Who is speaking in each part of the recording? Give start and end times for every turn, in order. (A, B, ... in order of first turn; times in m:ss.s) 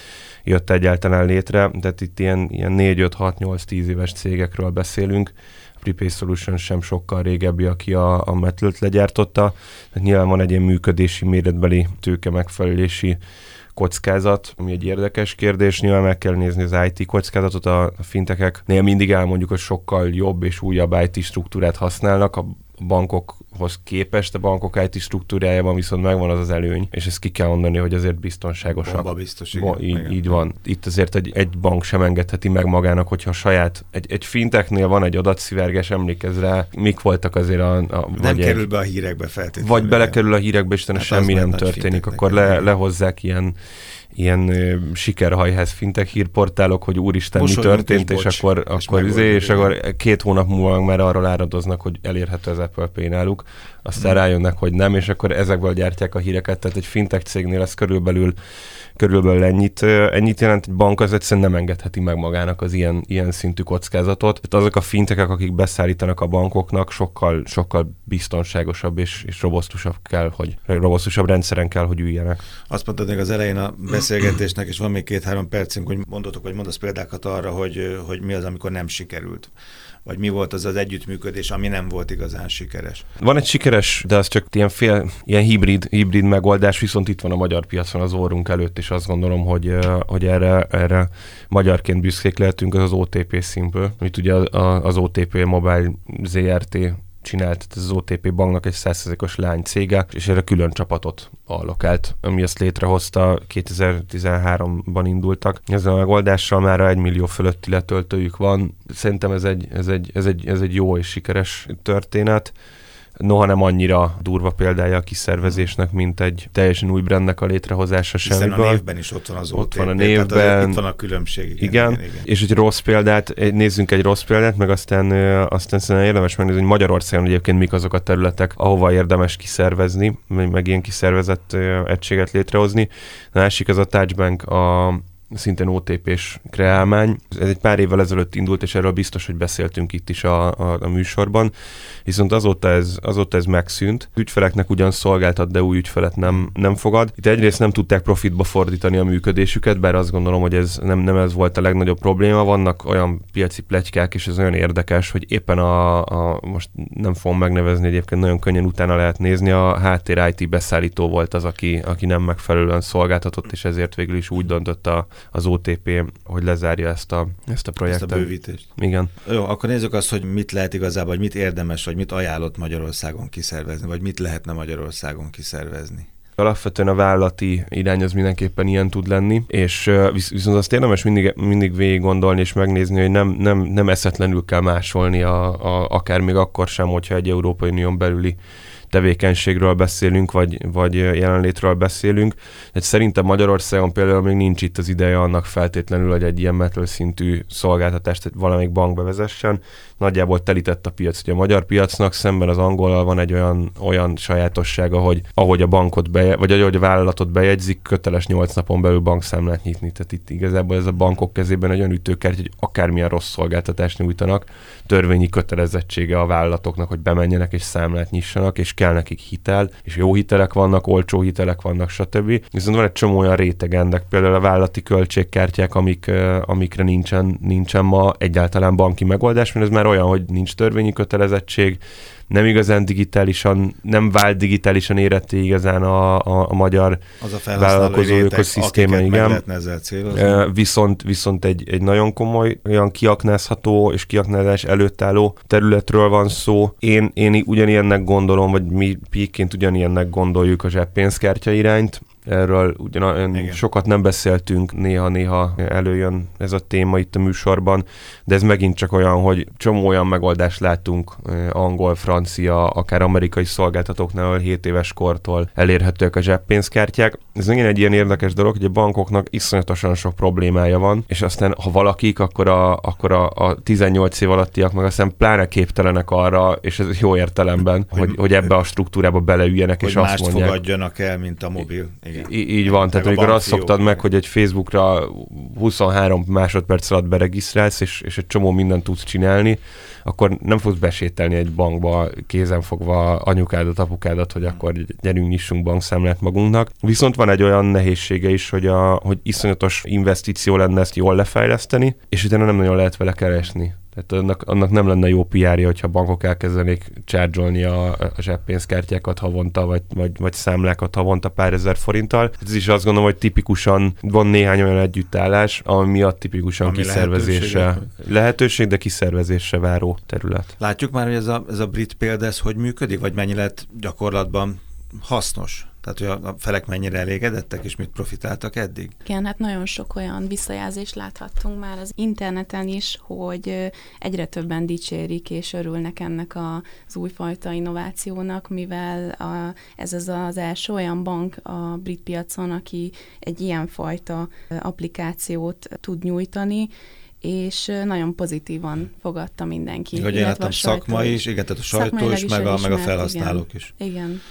0:00.4-0:13.2 A
0:13.7-0:38.6 A
0:28.7-0:30.4 B
0:38.1-0:40.2 B
0:39.6-0:43.5 A
0:40.9-0:42.7 B
0:44.1-0:58.4 A
0:47.3-0:49.7 B
0:59.0-1:12.4 A
1:12.7-1:19.5 B
1:20.0-1:23.0 B
1:23.2-1:52.5 A
1:53.2-1:58.8 A
1:58.2-2:02.2 B
1:59.5-2:00.8 A
2:01.6-2:21.5 A
2:22.0-2:49.1 A
2:47.8-2:56.1 B
2:56.4-3:08.4 A
3:08.9-3:57.0 A
3:57.2-4:00.4 B
3:57.5-3:59.4 A
4:00.1-4:40.6 A
4:13.3-4:13.6 B
4:39.8-4:44.0 B
4:42.1-5:20.5 A
5:16.6-5:17.9 B
5:20.6-5:28.9 B
5:29.0-5:46.7 C
5:47.2-5:54.2 C
5:49.9-5:53.7 B